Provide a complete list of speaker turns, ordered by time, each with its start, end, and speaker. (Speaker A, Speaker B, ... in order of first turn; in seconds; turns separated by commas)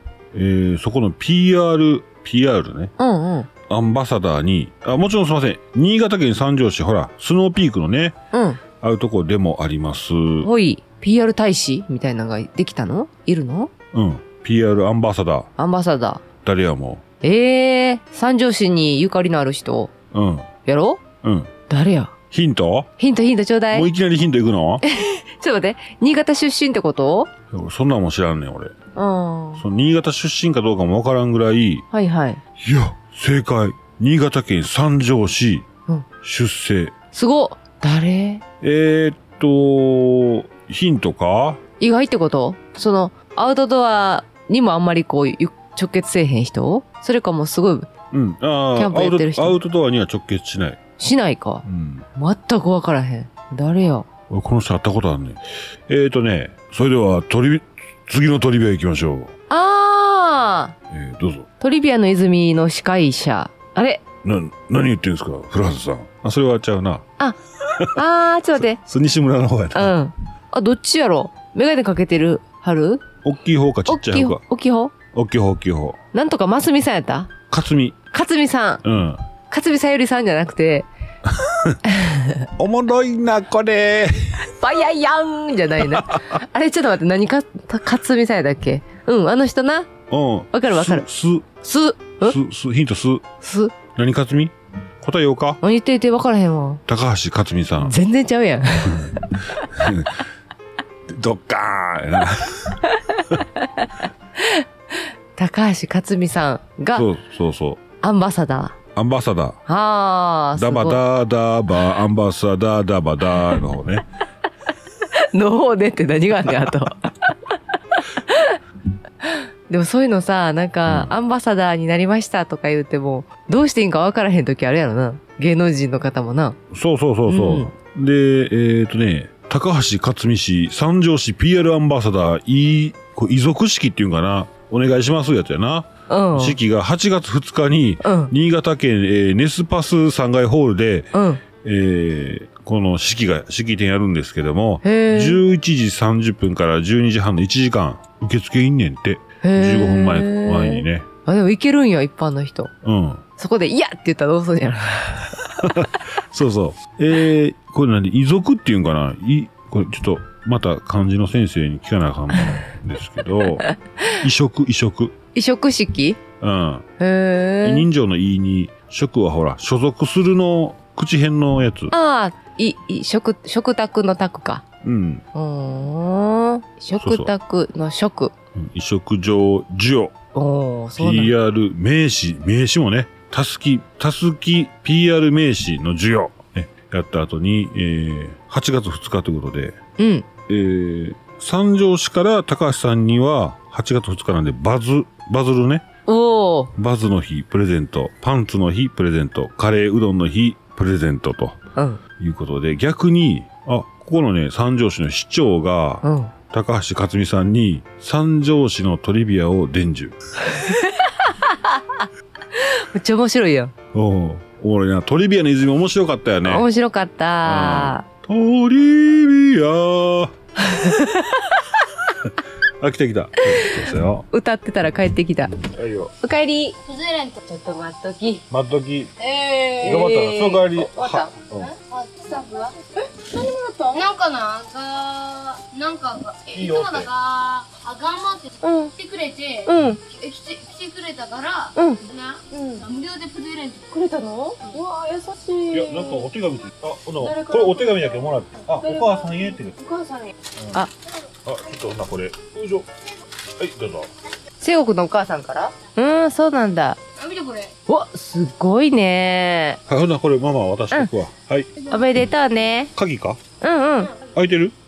Speaker A: 0.3-2.9, Speaker B: 3.0-3.5, Speaker A: 3.7-8.2, Speaker B: 8.3-8.6, Speaker A: 8.8-10.5, Speaker B: 10.4-13.7, Speaker A: 13.9-15.5, Speaker B: 15.6-16.2, Speaker A: 16.4-17.0, Speaker B: 17.2-19.9, Speaker A: 20.1-20.5, Speaker B: 20.7-21.0, Speaker A: 21.2-21.5, Speaker B: 21.7-22.1, Speaker A: 22.3-22.9, Speaker B: 23.0-23.9, Speaker A: 23.7-24.8, Speaker B: 24.8-27.3, Speaker A: 27.5-28.8, Speaker B: 28.9-29.6, Speaker A: 29.6-31.9, Speaker B: 31.9-32.4, Speaker A: 32.6-35.7, Speaker A: 36.2-36.9, Speaker B: 37.1-38.4, Speaker A: 38.6-41.6, Speaker B: 41.8-47.9, Speaker A: 48.1-50.8, Speaker B: 48.8-49.6, Speaker B: 51.0-54.1, Speaker A: 51.6-52.1, Speaker A: 54.3-59.3, Speaker B: 59.5-60.8, Speaker A: 60.9-61.5, Speaker B: 61.6-64.0, Speaker A: 64.2-67.0, Speaker A: 67.8-68.0, Speaker B: 67.9-68.8, Speaker A: 68.7-70.0, Speaker B: 69.7-73.0, Speaker A: 73.2-74.4, Speaker B: 73.9-74.9, Speaker A: 75.1-76.0, Speaker B: 76.1-77.3, Speaker A: 77.5-78.0, Speaker B: 78.1-78.8, Speaker A: 78.8-79.2, Speaker B: 79.5-80.9, Speaker A: 81.3-81.8, Speaker B: 81.8-82.5, Speaker A: 82.6-84.5, Speaker B: 84.6-89.9, Speaker A: 85.8-86.2, Speaker A: 90.1-91.5, Speaker B: 90.5-91.0, Speaker B: 91.6-92.4, Speaker A: 92.2-93.2, Speaker B: 93.4-93.8, Speaker A: 93.9-95.6, Speaker B: 95.6-96.8, Speaker A: 96.9-98.0, Speaker B: 97.8-99.7, Speaker A: 98.9-100.2, Speaker A: 101.1-103.3, Speaker B: 102.9-104.7, Speaker B: 105.4-107.1, Speaker A: 106.9-107.8, Speaker B: 108.0-108.8, Speaker A: 109.0-109.6, Speaker B: 109.7-111.0, Speaker A: 110.6-114.0, Speaker B: 115.1-117.3, Speaker B: 118.0-118.6, Speaker B: 119.3-126.6, Speaker A: 120.9-121.1, Speaker A: 126.7-151.1, Speaker B: 127.3-127.7, Speaker B: 136.1-136.6, Speaker B: 138.0-138.3, Speaker B: 141.1-141.4, Speaker B: 144.8-145.4, Speaker B: 149.4-152.7, Speaker A: 152.8-153.2, Speaker B: 153.4-155.5, Speaker A: 155.5-163.7, Speaker A: 164.2-165.2, Speaker B: 165.3-166.2, Speaker A: 166.4-166.9, Speaker B: 167.0-167.9, Speaker A: 167.6-171.9, Speaker B: 171.9-174.7, Speaker A: 174.8-175.2, Speaker B: 175.3-178.3, Speaker A: 177.0-177.3, Speaker A: 178.6-180.1, Speaker B: 180.3-181.3, Speaker A: 181.0-189.8, Speaker B: 190.0-190.3, Speaker A: 190.5-195.9, Speaker B: 196.1-196.7, Speaker A: 196.8-201.6, Speaker B: 201.8-202.0, Speaker A: 202.2-210.2, Speaker B: 206.0-206.3, Speaker B: 210.4-213.7, Speaker A: 213.9-216.7, Speaker B: 216.5-218.0, Speaker A: 217.4-220.3, Speaker B: 220.6-222.1, Speaker A: 222.8-224.3, Speaker B: 223.4-223.8, Speaker B: 224.3-225.6, Speaker A: 225.5-226.1, Speaker B: 226.2-226.8, Speaker C: 226.9-227.4, Speaker B: 227.4-228.5, Speaker A: 228.5-229.1, Speaker C: 229.2-230.1, Speaker B: 229.8-231.3, Speaker A: 229.8-231.7, Speaker C: 231.6-232.8, Speaker C: 233.3-244.0, Speaker A: 236.5-237.1, Speaker B: 238.6-238.9, Speaker B: 239.7-240.0, Speaker B: 241.8-242.0, Speaker B: 242.5-242.8, Speaker B: 243.9-246.2, Speaker A: 245.7-249.8, Speaker B: 247.3-247.6, Speaker B: 249.9-250.9, Speaker A: 251.4-252.9, Speaker A: 253.5-254.1, Speaker B: 254.6-257.0, Speaker C: 257.2-257.8, Speaker B: 257.9-259.8, Speaker A: 259.9-261.7, Speaker B: 261.9-262.9, Speaker A: 262.9-263.4, Speaker B: 263.6-264.1, Speaker A: 264.3-264.8